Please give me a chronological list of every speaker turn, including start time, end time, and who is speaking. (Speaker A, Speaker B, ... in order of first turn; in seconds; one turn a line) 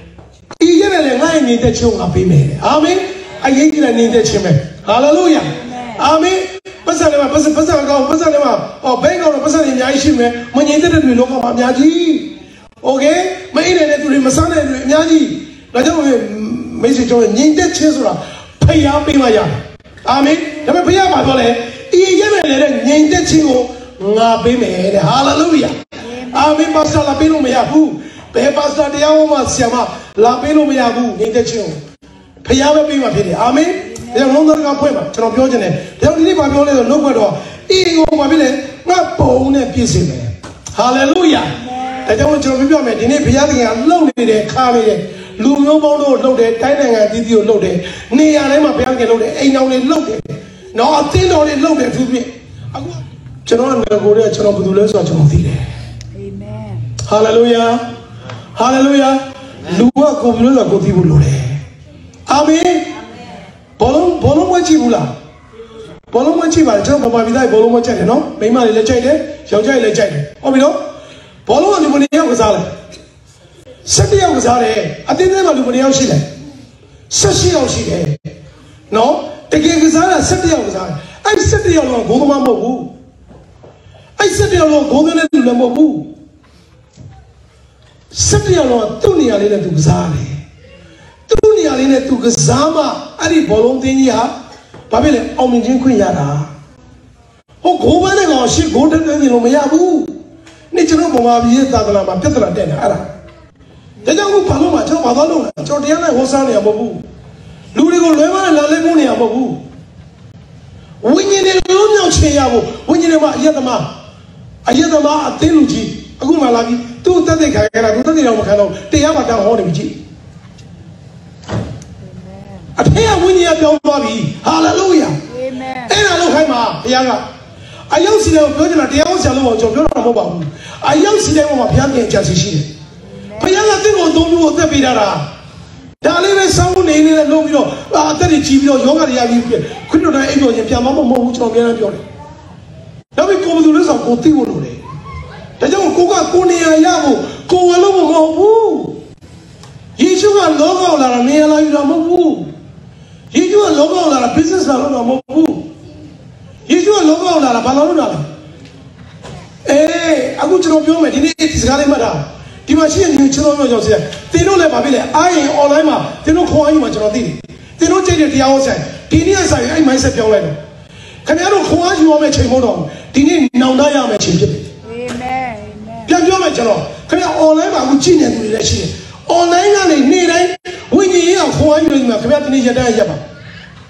Speaker A: 0.6-31.8
Speaker A: 32.4-55.6
Speaker B: 56.2-56.9
Speaker A: 57.0-57.8
Speaker A: 58.6-61.6
Speaker A: 62.3-62.9
Speaker A: 63.8-65.1
Speaker A: 66.1-70.8
Speaker A: 71.5-72.7
Speaker A: 73.8-76.2
Speaker A: 77.1-78.2
Speaker A: 78.9-82.9
Speaker A: 84.2-86.1
Speaker A: 88.1-90.4
Speaker A: 91.3-94.3
Speaker A: 94.9-96.5
Speaker A: 97.6-100.2
Speaker A: 100.7-103.1
Speaker A: 104.0-107.0
Speaker A: 107.7-109.6
Speaker A: 111.0-113.9
Speaker A: 114.7-119.9
Speaker B: 122.0-122.7
Speaker A: 122.8-125.2
Speaker B: 125.3-125.9
Speaker A: 125.8-127.2
Speaker A: 127.9-132.7
Speaker B: 133.1-133.6
Speaker A: 133.4-135.2
Speaker A: 136.0-142.0
Speaker A: 143.2-144.8
Speaker A: 145.6-149.0
Speaker A: 150.0-152.5
Speaker A: 153.3-155.7
Speaker A: 156.7-158.2
Speaker A: 159.6-170.6
Speaker A: 171.2-174.7
Speaker B: 174.8-176.1
Speaker A: 176.1-183.2